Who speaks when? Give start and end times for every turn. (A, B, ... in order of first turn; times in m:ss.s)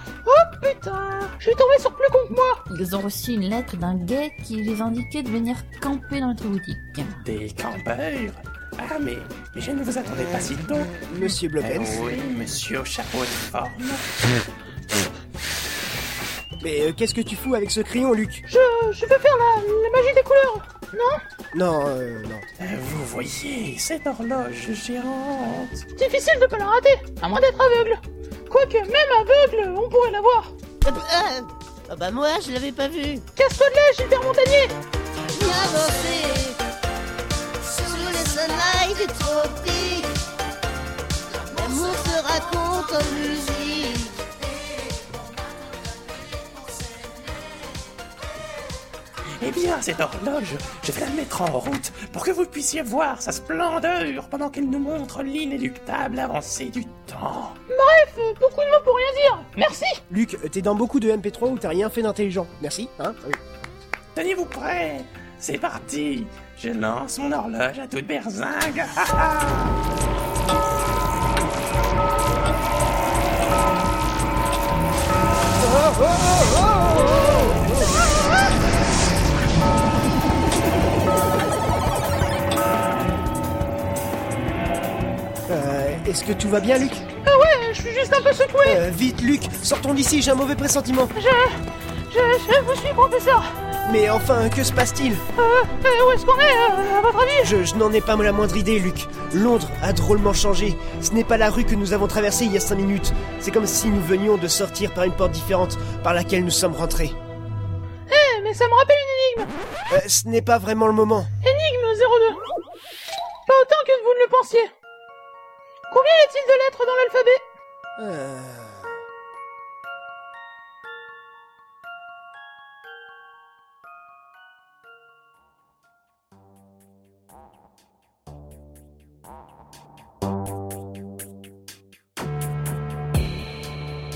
0:00.2-0:02.6 A
0:02.7-0:07.2 B
0:07.2-0:11.0 C
0:11.1-0:12.1 D
0:11.6-0:14.0 C
0:16.6-0:18.4 D
0:18.5-0:21.2 A
0:21.5-0:22.4 D
0:22.6-0:25.8 C
0:26.0-0:30.5 A
0:30.9-0:33.2 E
0:33.4-0:34.7 A
0:35.4-0:36.6 E
0:37.8-0:40.1 E
0:41.6-0:44.1 E
0:49.4-0:57.6 C
0:57.7-1:00.0 A
1:00.1-1:03.4 D
1:04.1-1:09.7 C
1:25.5-1:27.1 D
1:27.2-1:28.8 A
1:28.6-1:31.1 D
1:31.1-1:33.4 A
1:33.8-1:35.2 D
1:35.4-1:37.5 A
1:37.4-1:47.2 D
1:48.1-1:49.5 A
1:49.9-1:51.3 D
1:51.4-1:52.4 A
1:53.5-1:54.7 A
1:55.9-1:57.4 A
1:58.0-1:58.9 D